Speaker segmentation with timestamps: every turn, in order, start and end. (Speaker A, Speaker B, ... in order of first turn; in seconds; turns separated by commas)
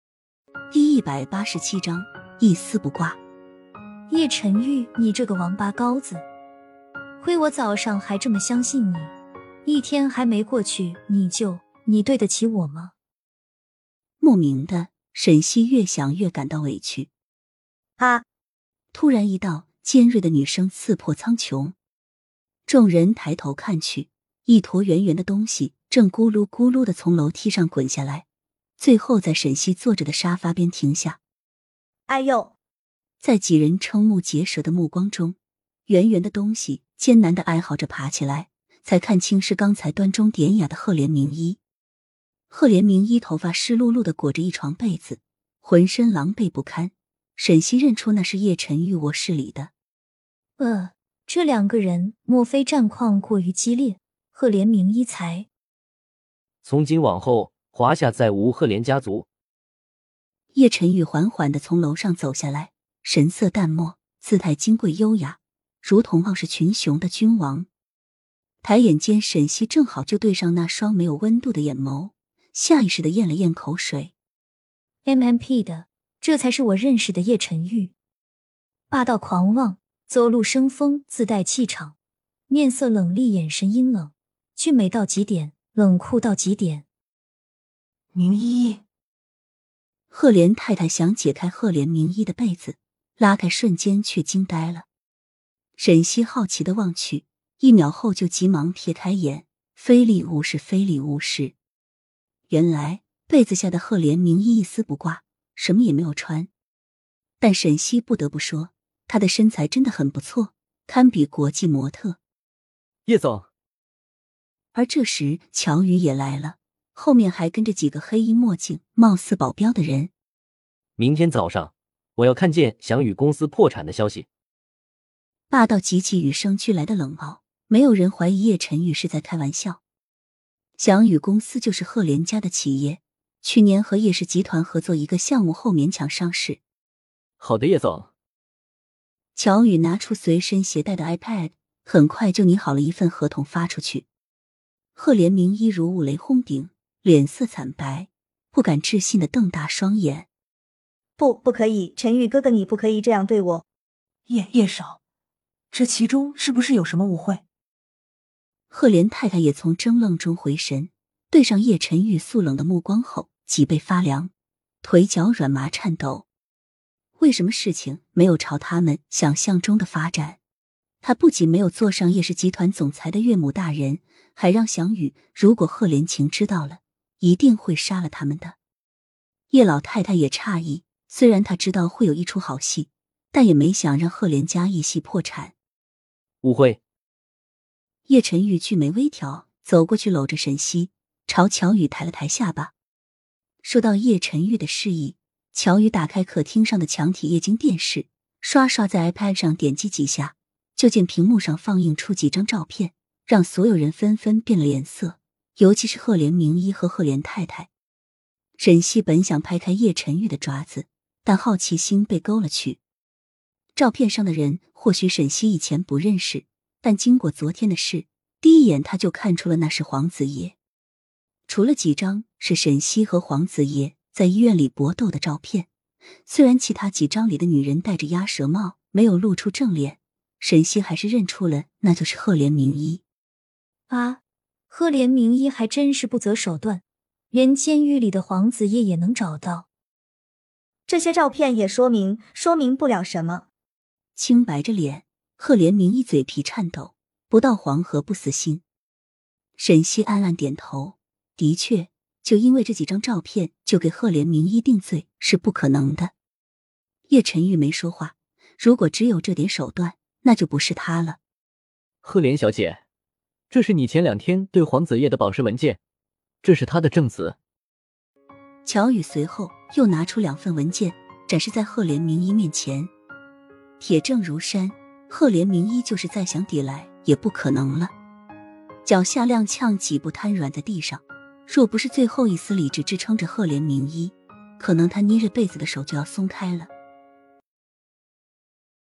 Speaker A: 0.7-3.2, Speaker B: 4.1-6.2, Speaker B: 7.2-9.1, Speaker B: 9.6-12.9, Speaker A: 14.2-17.1, Speaker C: 18.0-18.2, Speaker A: 18.9-21.8, Speaker A: 22.7-28.2, Speaker A: 28.8-31.2, Speaker C: 32.1-32.5, Speaker A: 33.2-35.4, Speaker A: 35.9-41.6, Speaker A: 42.5-49.7, Speaker B: 50.6-55.5, Speaker D: 56.6-59.3, Speaker A: 60.5-67.7, Speaker A: 68.6-74.1, Speaker B: 75.0-77.9, Speaker B: 78.9-81.9, Speaker B: 82.5-86.8, Speaker E: 88.1-88.8, Speaker A: 90.1-94.9, Speaker A: 95.8-101.5, Speaker A: 102.5-106.5, Speaker A: 107.4-112.2, Speaker D: 113.1-113.5, Speaker A: 114.7-120.1, Speaker D: 121.0-124.2, Speaker A: 125.5-129.8, Speaker A: 130.8-136.6, Speaker D: 137.4-138.1, Speaker A: 139.3-144.0, Speaker A: 144.9-150.3, Speaker C: 151.2-153.6, Speaker E: 154.3-155.0, Speaker E: 155.7-157.4, Speaker A: 158.7-164.3, Speaker A: 164.8-166.2, Speaker A: 167.2-170.4, Speaker A: 171.0-178.6, Speaker A: 179.5-185.5, Speaker D: 186.4-186.8, Speaker A: 188.1-192.7, Speaker A: 193.6-207.7, Speaker A: 208.6-212.8, Speaker A: 213.8-220.6, Speaker A: 221.5-225.7, Speaker A: 226.2-233.0, Speaker B: 233.9-239.7, Speaker C: 240.9-243.5, Speaker A: 244.2-248.6, Speaker A: 249.6-256.1, Speaker A: 257.1-261.2, Speaker D: 262.0-262.8, Speaker D: 263.5-265.8, Speaker D: 266.4-267.3, Speaker A: 268.6-272.9, Speaker A: 273.8-277.9, Speaker A: 278.8-286.7